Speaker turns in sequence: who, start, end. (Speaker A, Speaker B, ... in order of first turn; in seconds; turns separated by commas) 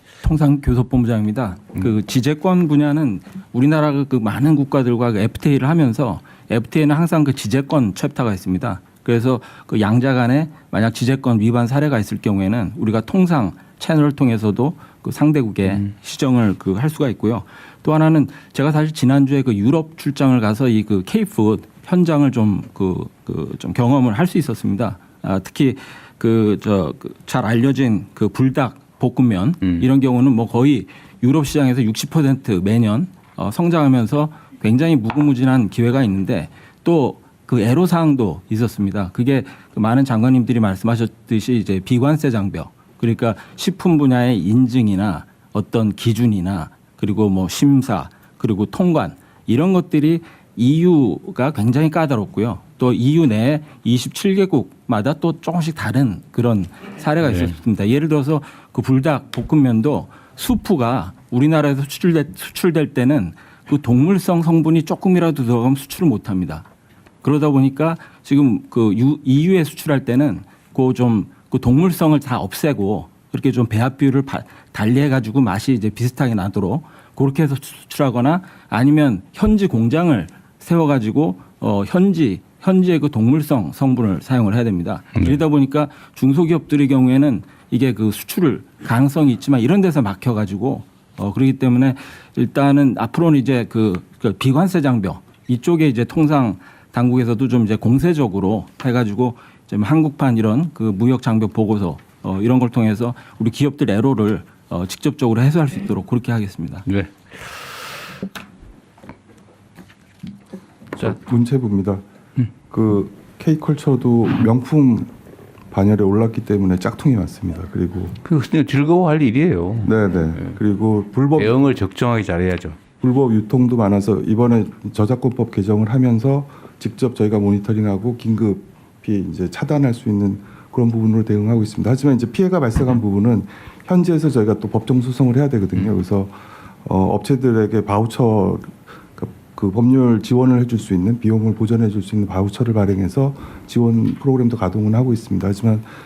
Speaker A: 0.2-66.6, Speaker A: 67.2-106.8, Speaker B: 106.8-107.7, Speaker C: 111.0-112.0, Speaker C: 112.7-115.1, Speaker C: 115.7-118.1, Speaker B: 118.2-120.6, Speaker C: 119.8-121.6, Speaker B: 121.3-122.8, Speaker C: 123.0-145.9